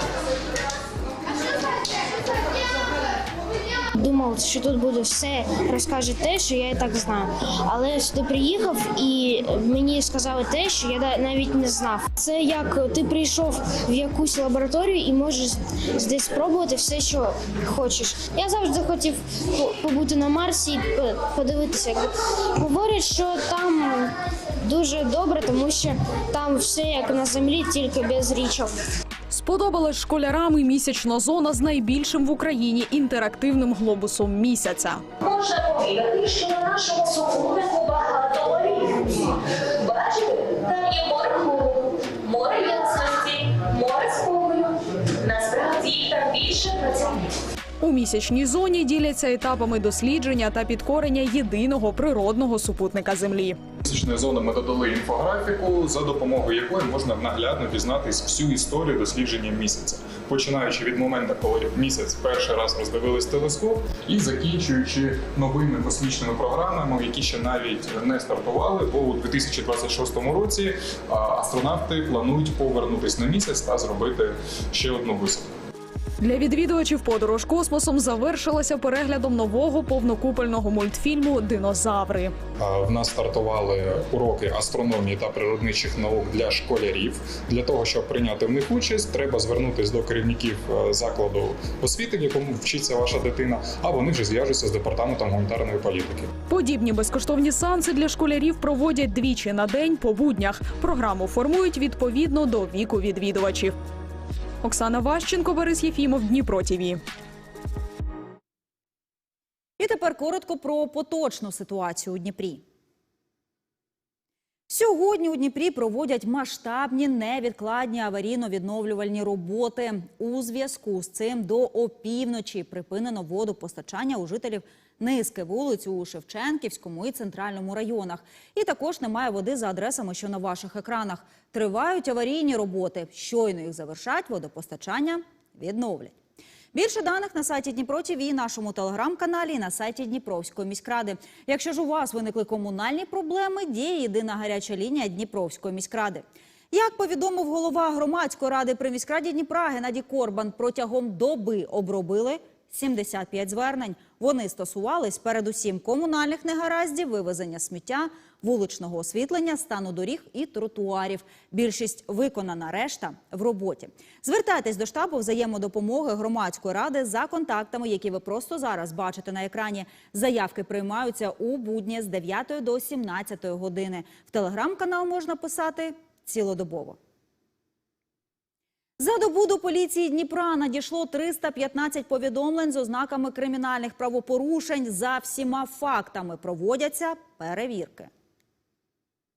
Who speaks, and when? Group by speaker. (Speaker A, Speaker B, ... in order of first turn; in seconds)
Speaker A: 4.0-28.7
Speaker B: 29.3-35.0, 47.8-53.6, 76.2-82.3, 96.5-103.7, 104.6-107.0
Speaker C: 35.2-39.1, 39.9-47.2
Speaker D: 53.8-75.4, 82.6-96.3
Speaker E: 109.8-112.6, 114.7-136.1, 136.7-177.0, 179.0-188.1